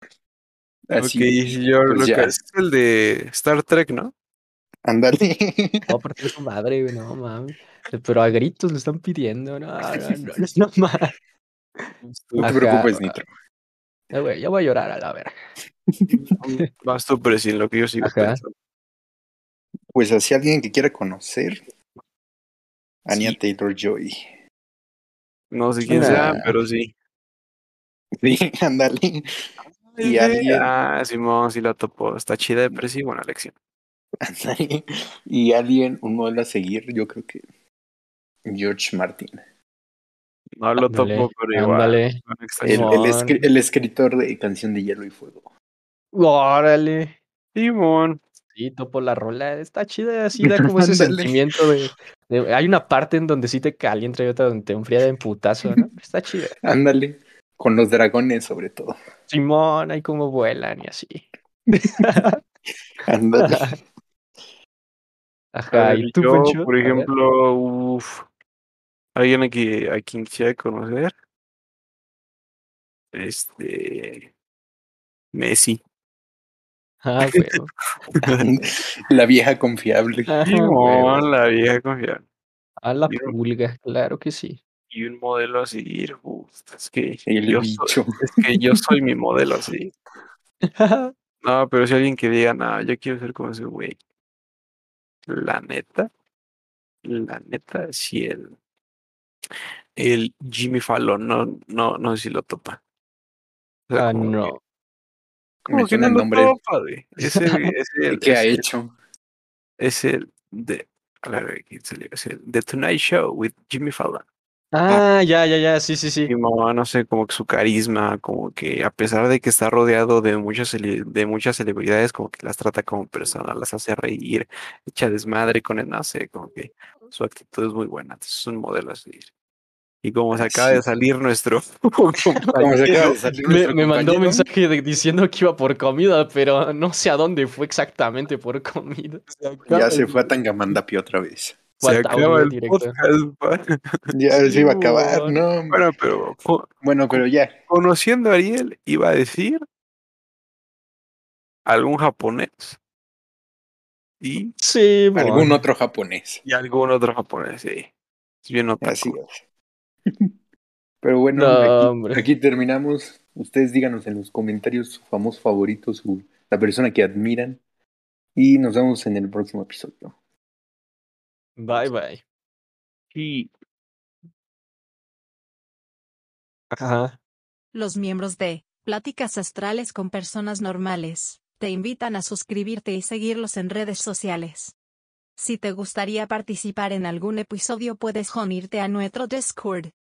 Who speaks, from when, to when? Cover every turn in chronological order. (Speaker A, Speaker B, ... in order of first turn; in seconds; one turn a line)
Speaker A: 0.9-2.4
Speaker B: 1.0-4.1
Speaker A: 4.8-5.9
Speaker C: 5.9-11.1
Speaker C: 11.8-13.2
Speaker B: 12.0-12.6
Speaker A: 12.4-13.3
Speaker C: 14.1-15.3
Speaker A: 15.9-16.2
Speaker B: 16.1-18.5
Speaker C: 18.0-18.4
Speaker A: 19.9-21.6
Speaker A: 23.1-24.3
Speaker B: 23.1-23.4
Speaker B: 25.5-26.9
Speaker C: 25.9-26.4
Speaker A: 25.9-26.6
Speaker A: 28.2-29.3
Speaker B: 29.8-33.5
Speaker A: 30.0-30.7
Speaker A: 34.2-37.4
Speaker A: 38.5-39.4
Speaker B: 40.6-43.0
Speaker C: 40.8-43.5
Speaker A: 42.6-45.5
Speaker C: 46.1-47.1
Speaker B: 47.5-48.2
Speaker C: 48.5-56.5
Speaker A: 50.4-51.4
Speaker A: 56.6-59.0
Speaker C: 59.3-61.3
Speaker C: 61.8-62.4
Speaker A: 63.1-63.8
Speaker C: 63.4-63.8
Speaker C: 65.5-67.1
Speaker B: 65.7-68.2
Speaker B: 69.2-71.1
Speaker B: 73.1-74.3
Speaker B: 75.3-75.8
Speaker C: 77.0-77.7
Speaker B: 78.2-78.4
Speaker A: 78.4-80.4
Speaker C: 80.3-81.2
Speaker B: 80.5-82.2
Speaker C: 82.8-84.6
Speaker B: 83.1-83.3
Speaker B: 84.9-89.9
Speaker A: 87.3-88.3
Speaker C: 90.7-91.1
Speaker B: 91.4-94.0
Speaker B: 95.3-96.1
Speaker B: 97.0-98.6
Speaker B: 100.0-102.8
Speaker B: 103.9-104.5
Speaker C: 103.9-104.6
Speaker A: 105.7-106.6
Speaker B: 105.7-108.6
Speaker C: 107.2-107.7
Speaker A: 108.1-108.9
Speaker B: 109.8-114.2
Speaker C: 114.7-116.3
Speaker B: 116.3-129.3
Speaker B: 130.0-133.2
Speaker A: 130.3-130.9
Speaker A: 132.5-134.5
Speaker C: 133.5-139.2
Speaker B: 139.3-140.3
Speaker A: 139.7-141.6
Speaker C: 141.8-143.0
Speaker B: 141.8-144.1
Speaker A: 144.1-145.8
Speaker C: 144.5-145.3
Speaker B: 145.7-149.6
Speaker A: 146.8-147.5
Speaker B: 151.7-152.8
Speaker B: 154.2-154.5
Speaker C: 154.6-155.5
Speaker A: 155.2-156.4
Speaker B: 156.5-157.9
Speaker B: 158.4-159.2
Speaker A: 158.8-159.4
Speaker A: 161.0-167.6
Speaker C: 161.3-162.2
Speaker A: 168.3-170.2
Speaker C: 171.6-172.2
Speaker B: 173.1-173.5
Speaker C: 176.7-177.2
Speaker D: 177.7-184.8
Speaker D: 185.4-189.9